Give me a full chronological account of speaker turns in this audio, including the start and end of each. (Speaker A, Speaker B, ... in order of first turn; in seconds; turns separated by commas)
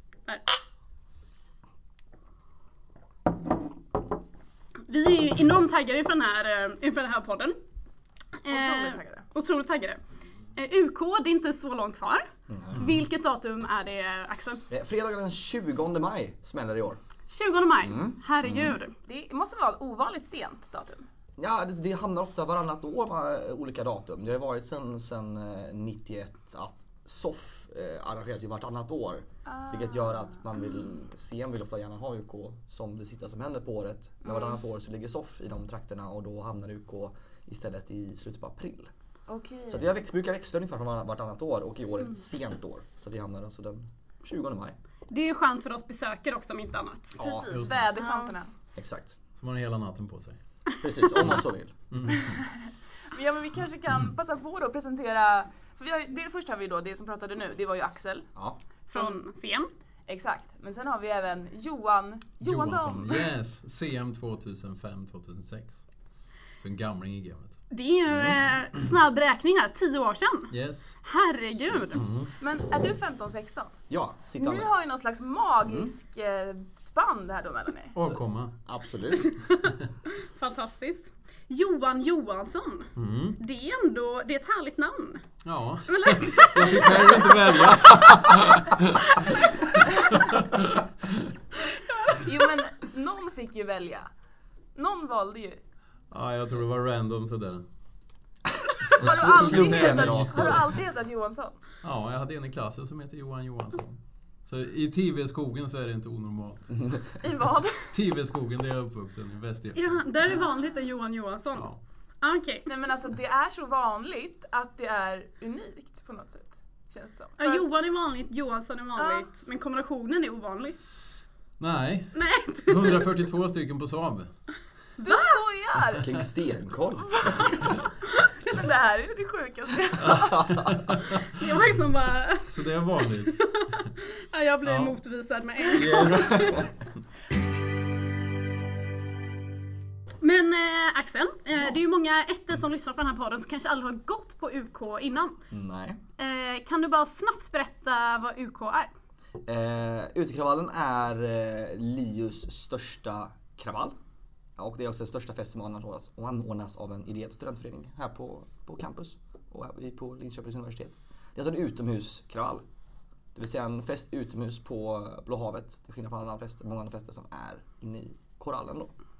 Speaker A: 4.9-7.6, Speaker A: 8.4-10.0, Speaker B: 8.5-9.2, Speaker A: 10.5-14.6, Speaker C: 12.5-12.9, Speaker C: 14.7-17.0, Speaker A: 17.3-18.9, Speaker C: 17.8-18.8, Speaker B: 19.1-21.1, Speaker C: 21.4-38.9, Speaker B: 29.4-30.4, Speaker B: 34.2-34.6, Speaker B: 39.3-39.9, Speaker C: 39.7-44.7, Speaker A: 45.1-47.2, Speaker C: 47.1-47.5, Speaker B: 47.2-48.5, Speaker D: 47.5-47.9, Speaker A: 47.9-48.3, Speaker C: 48.8-49.2, Speaker D: 49.4-50.4, Speaker C: 50.8-51.7, Speaker D: 51.2-52.4, Speaker B: 52.1-58.2, Speaker A: 58.9-59.7, Speaker B: 58.9-59.2, Speaker B: 60.1-63.2, Speaker D: 62.4-65.8, Speaker D: 66.6-67.6, Speaker A: 67.7-72.1, Speaker C: 68.1-68.4, Speaker D: 70.5-71.0, Speaker D: 71.9-72.3, Speaker B: 72.4-73.7, Speaker C: 73.9-74.7, Speaker B: 74.4-78.0, Speaker C: 75.7-75.9, Speaker D: 77.9-78.5, Speaker C: 78.0-79.3, Speaker A: 79.1-85.2, Speaker D: 83.0-83.4, Speaker D: 85.4-91.3, Speaker A: 85.9-88.0, Speaker A: 89.0-89.5, Speaker A: 91.6-92.5, Speaker B: 92.1-94.1, Speaker B: 94.7-95.6, Speaker D: 96.1-97.6, Speaker D: 98.9-100.7, Speaker B: 98.9-101.6, Speaker C: 98.9-100.7, Speaker D: 101.8-106.9, Speaker B: 107.2-107.9, Speaker D: 107.9-110.4, Speaker A: 109.7-112.7, Speaker B: 112.7-117.7, Speaker A: 117.4-120.8, Speaker B: 119.0-119.3, Speaker D: 121.6-124.3, Speaker A: 122.1-123.0, Speaker A: 125.0-125.3, Speaker B: 125.0-126.1, Speaker C: 125.9-127.7, Speaker B: 127.0-127.9, Speaker B: 128.4-130.6, Speaker C: 130.0-130.9, Speaker D: 130.7-131.2, Speaker A: 131.2-136.7, Speaker D: 132.5-133.4, Speaker D: 134.6-134.9, Speaker C: 135.8-136.7, Speaker D: 135.8-136.5, Speaker A: 140.2-145.4, Speaker C: 145.5-146.0, Speaker A: 146.2-148.9, Speaker C: 149.4-153.9, Speaker C: 154.6-162.6, Speaker C: 163.3-168.9